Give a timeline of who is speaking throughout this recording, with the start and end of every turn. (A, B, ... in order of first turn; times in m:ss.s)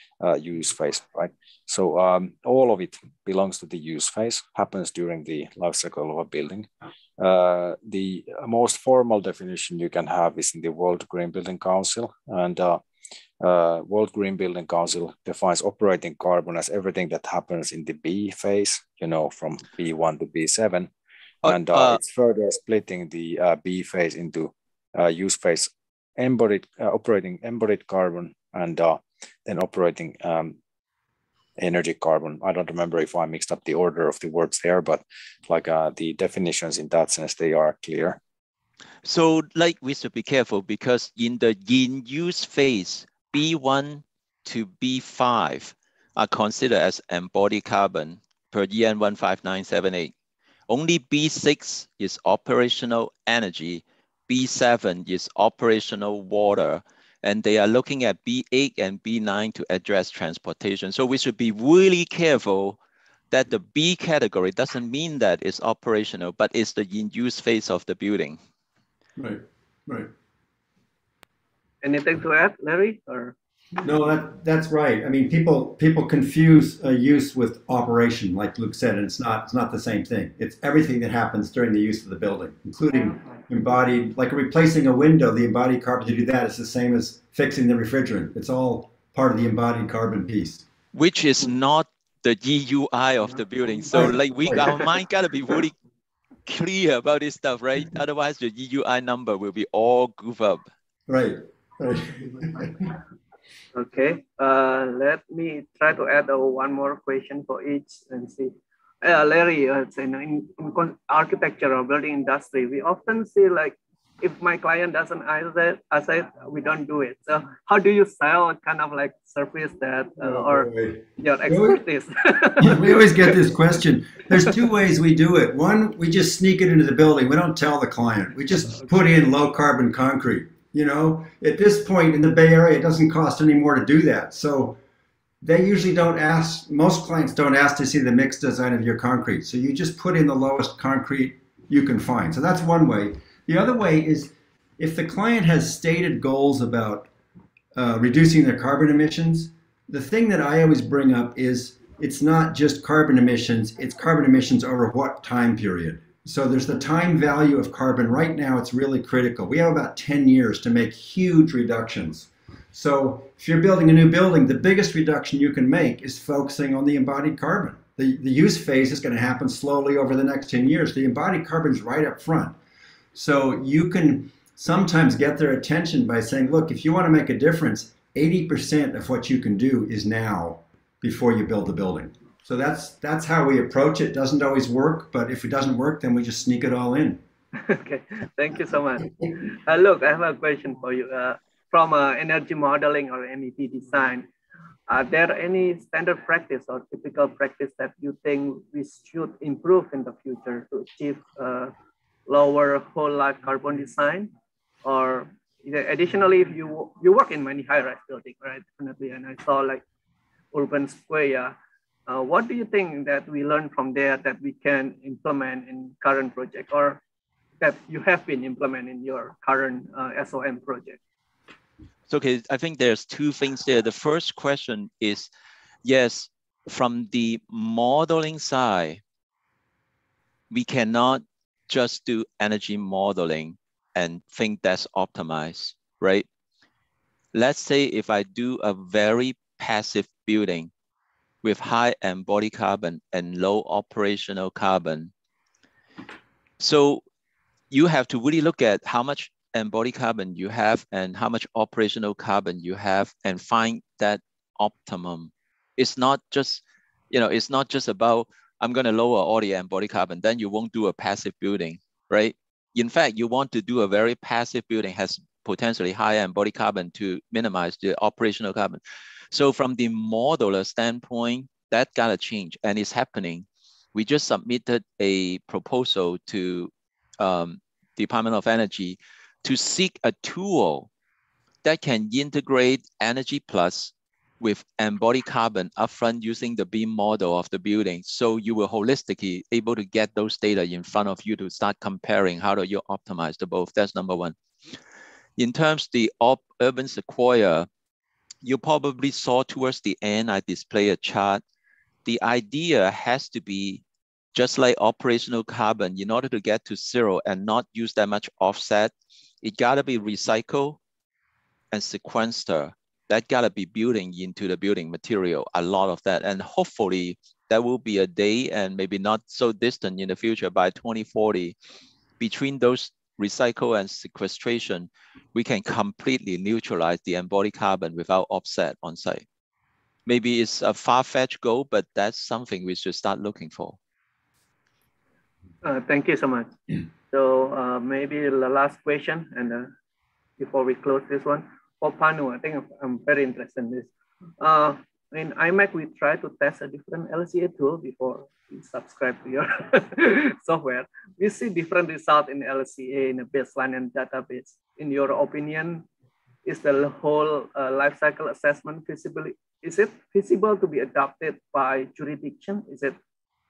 0:00.2-0:12.8 A
0:13.4-0:20.9 A
0:21.4-0:30.6 A
0:21.4-0:22.0 B
0:31.6-0:38.2 A
0:39.0-0:50.1 B
0:50.7-1:02.8 B
1:03.3-1:08.4 B
1:09.2-1:10.1 C
1:11.8-1:13.3 D
1:13.8-1:30.6 C
1:30.9-1:35.7 B
1:33.9-1:34.8 C
1:36.4-1:40.6 B
1:41.1-1:42.9 C
1:43.7-2:03.3 D
2:00.2-2:01.8 C
2:02.6-2:14.8 C
2:15.4-2:27.1 C
2:27.7-2:52.6 C
2:53.1-3:07.2 C
3:07.6-3:14.3 D
3:14.9-3:21.7 D
3:22.3-3:24.3 D
3:24.8-3:29.8 D
3:30.5-3:31.5 D
3:32.1-3:37.0 D
3:37.6-3:41.0 D
3:42.1-3:45.3 B
3:45.8-3:49.0 B
3:50.5-3:56.2 B
3:57.3-4:00.7 B
4:01.4-4:05.1 B
4:06.6-4:07.0 B
4:07.7-4:28.8 B
4:29.3-4:40.9 B
4:41.6-4:54.4 B
4:55.4-4:57.7 B
4:58.4-5:01.4 B
5:02.0-5:03.8 B
5:04.3-5:10.8 B
5:11.7-5:21.5 B
5:22.2-5:29.2 B
5:30.0-5:33.8 B
5:35.6-5:36.5 D
5:37.1-5:39.7 D
5:40.4-5:43.9 D
5:44.4-5:55.8 D
5:56.4-6:03.0 D